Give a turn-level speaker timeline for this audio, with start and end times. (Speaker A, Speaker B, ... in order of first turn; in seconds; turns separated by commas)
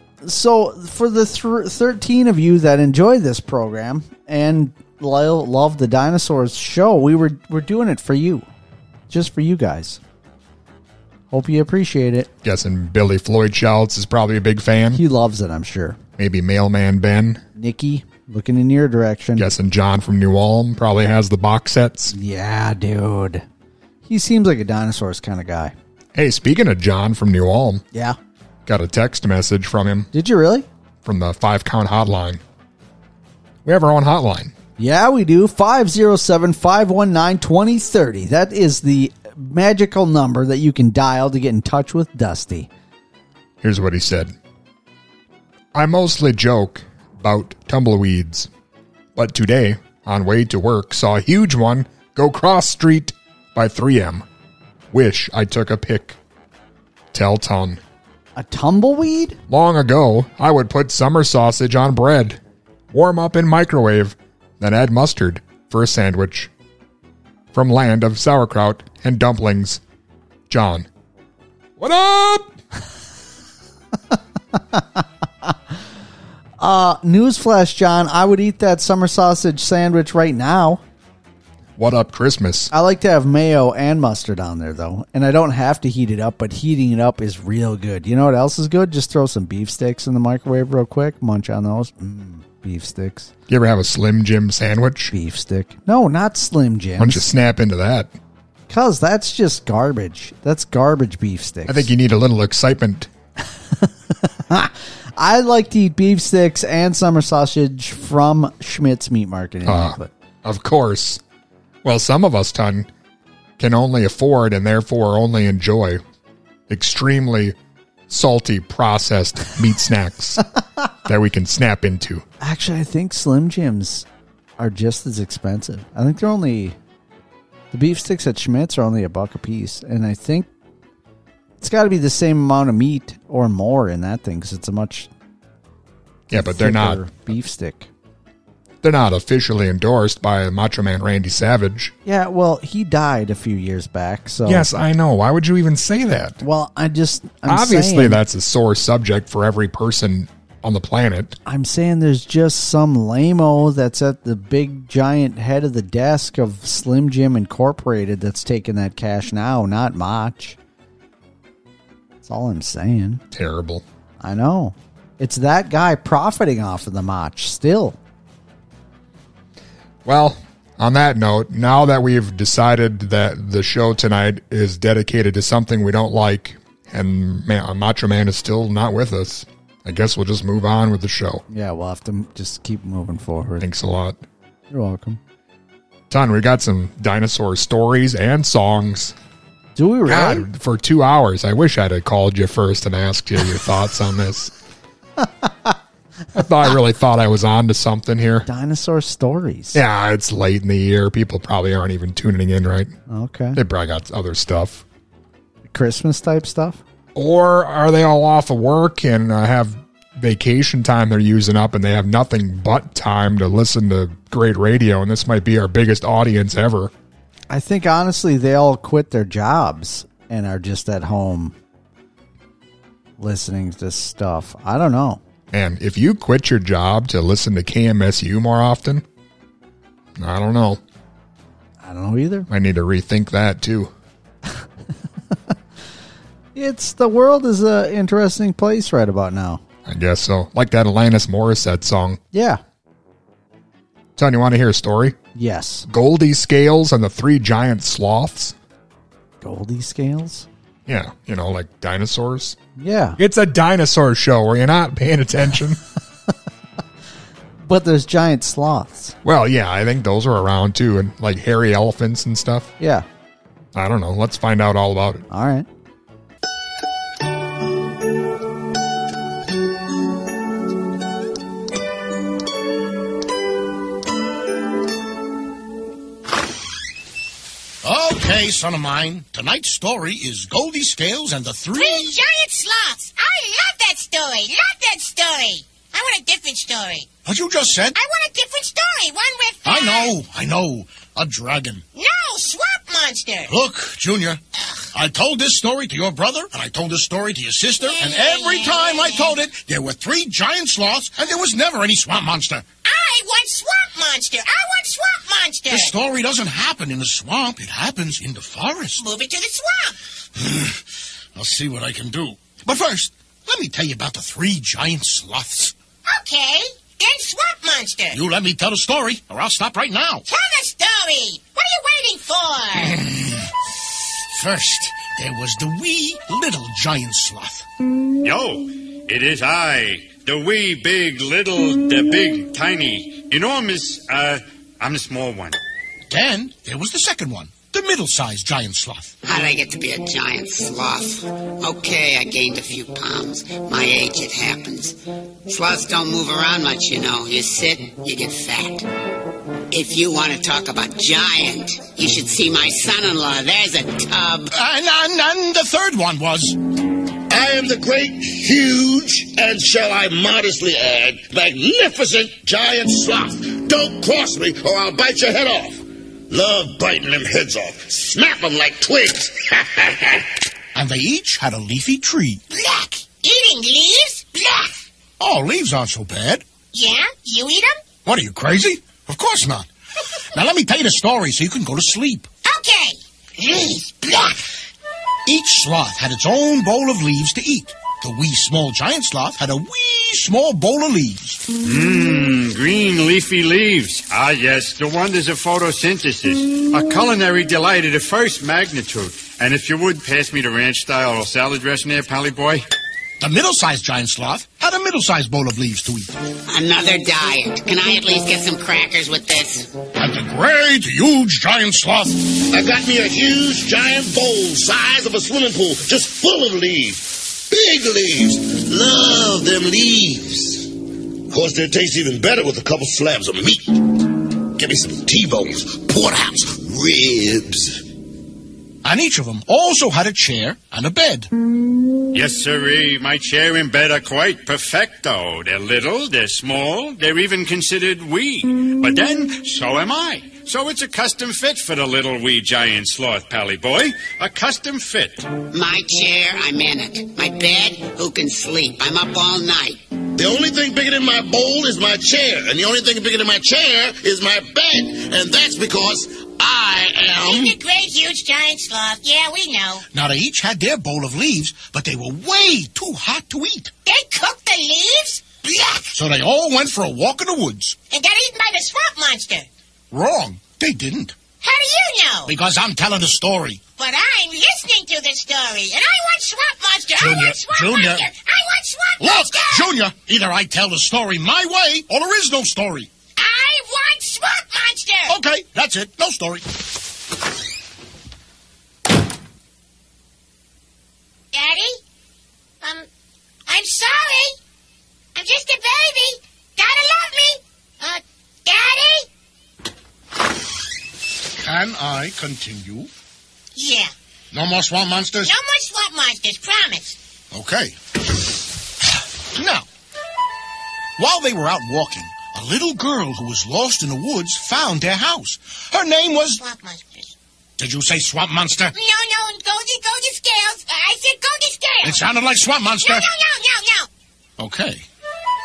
Speaker A: 0.2-8.5, Speaker A: 9.1-10.0, Speaker A: 11.3-12.3, Speaker B: 12.4-15.0, Speaker A: 14.9-16.0, Speaker B: 16.2-17.4, Speaker A: 17.6-19.5, Speaker B: 19.4-22.1, Speaker A: 22.1-23.5, Speaker A: 24.1-25.7, Speaker B: 26.1-27.8, Speaker B: 28.7-30.1, Speaker A: 30.1-30.7, Speaker B: 31.0-32.4, Speaker B: 33.6-34.5, Speaker A: 34.8-42.7, Speaker B: 43.6-44.3, Speaker B: 45.7-48.5, Speaker B: 49.1-54.2, Speaker B: 54.9-56.2, Speaker B: 57.1-57.8, Speaker A: 58.4-59.4, Speaker B: 59.5-62.4, Speaker B: 62.9-66.5, Speaker B: 67.5-69.8, Speaker B: 70.5-70.9, Speaker B: 71.8-72.5, Speaker A: 74.1-75.5, Speaker A: 76.6-80.8, Speaker B: 81.8-82.7, Speaker A: 82.7-93.3, Speaker B: 93.5-95.1, Speaker A: 95.1-97.3, Speaker B: 97.0-98.1, Speaker A: 98.7-101.9, Speaker B: 101.7-103.1, Speaker A: 104.5-110.1, Speaker B: 109.7-111.2, Speaker B: 111.8-112.9, Speaker B: 113.6-116.0, Speaker B: 116.7-117.5, Speaker B: 118.1-120.4, Speaker B: 121.1-122.2, Speaker A: 122.4-124.1, Speaker A: 124.6-126.8, Speaker A: 127.7-130.5, Speaker A: 131.6-135.1, Speaker B: 136.3-137.0, Speaker A: 136.3-137.9, Speaker B: 138.8-141.9, Speaker A: 142.1-144.7, Speaker B: 144.5-146.4, Speaker A: 146.4-148.2, Speaker B: 147.5-151.4, Speaker A: 151.4-160.6, Speaker A: 162.2-163.2, Speaker B: 163.3-163.8, Speaker A: 164.2-168.0, Speaker B: 170.1-181.4, Speaker A: 181.5-183.7, Speaker B: 183.6-184.2, Speaker A: 184.7-185.2, Speaker B: 186.1-189.2, Speaker A: 189.8-190.5, Speaker B: 190.1-194.5, Speaker A: 195.2-195.8, Speaker B: 196.3-198.5, Speaker A: 198.5-199.8, Speaker B: 199.7-202.9, Speaker A: 203.1-203.6, Speaker B: 203.6-204.8, Speaker A: 205.7-206.8, Speaker B: 207.2-216.9, Speaker A: 217.5-221.6, Speaker A: 223.2-225.2, Speaker B: 225.5-229.0, Speaker B: 230.2-230.8, Speaker A: 231.8-232.5, Speaker B: 232.5-233.9, Speaker A: 236.6-239.6, Speaker B: 239.8-242.2, Speaker A: 242.3-242.6, Speaker B: 244.2-245.2, Speaker A: 245.3-245.9, Speaker B: 245.9-248.6, Speaker A: 249.4-250.5, Speaker B: 250.9-252.6, Speaker A: 252.8-253.2, Speaker B: 253.2-255.8, Speaker A: 257.6-259.2, Speaker B: 259.2-262.7, Speaker A: 262.8-263.1, Speaker B: 263.7-265.2, Speaker A: 265.3-265.7, Speaker C: 277.8-282.1, Speaker D: 281.7-287.1, Speaker C: 287.3-288.0, Speaker D: 287.9-290.2, Speaker C: 289.6-291.9, Speaker D: 291.9-293.5, Speaker C: 293.5-294.4, Speaker C: 294.9-302.7, Speaker D: 297.8-299.4, Speaker D: 302.8-305.9, Speaker C: 305.7-309.0, Speaker D: 309.0-310.0, Speaker C: 310.4-310.8, Speaker C: 311.4-315.7, Speaker D: 316.1-318.2, Speaker C: 318.1-320.2, Speaker D: 320.3-323.0, Speaker C: 323.0-323.3, Speaker C: 324.3-327.7, Speaker E: 328.2-335.6, Speaker C: 336.1-339.1, Speaker F: 339.2-348.9, Speaker F: 349.7-354.5, Speaker C: 354.5-356.6, Speaker G: 357.3-370.3, Speaker C: 370.7-372.4, Speaker D: 372.5-374.8, Speaker C: 375.2-376.4, Speaker D: 376.7-377.8, Speaker C: 378.1-379.7, Speaker C: 380.3-382.3, Speaker D: 382.4-384.4, Speaker C: 385.3-391.4, Speaker E: 391.6-402.6, Speaker C: 403.2-406.1, Speaker F: 406.5-409.7, Speaker C: 410.0-412.2, Speaker G: 412.3-420.7, Speaker G: 421.3-427.8, Speaker C: 428.8-431.3, Speaker E: 432.1-445.3, Speaker F: 445.5-449.8, Speaker G: 450.1-457.6, Speaker D: 457.2-459.8, Speaker C: 459.9-463.7, Speaker D: 463.9-465.9, Speaker C: 465.9-467.8, Speaker D: 467.9-469.5, Speaker C: 469.9-471.2, Speaker D: 471.4-472.3, Speaker C: 472.3-473.6, Speaker D: 473.8-479.7, Speaker C: 477.0-478.1, Speaker C: 479.0-482.9, Speaker D: 483.2-485.1, Speaker C: 485.1-486.5, Speaker D: 491.3-491.8, Speaker D: 492.6-492.9, Speaker D: 493.5-494.4, Speaker D: 495.1-499.1, Speaker C: 501.4-502.9, Speaker D: 503.6-503.9, Speaker C: 504.3-505.3, Speaker D: 505.2-507.0, Speaker C: 507.3-507.8, Speaker C: 509.4-509.7, Speaker C: 511.0-516.4, Speaker D: 516.4-517.1, Speaker C: 517.6-518.7, Speaker D: 518.7-522.0, Speaker C: 521.8-523.1, Speaker D: 522.8-523.9, Speaker C: 524.4-524.9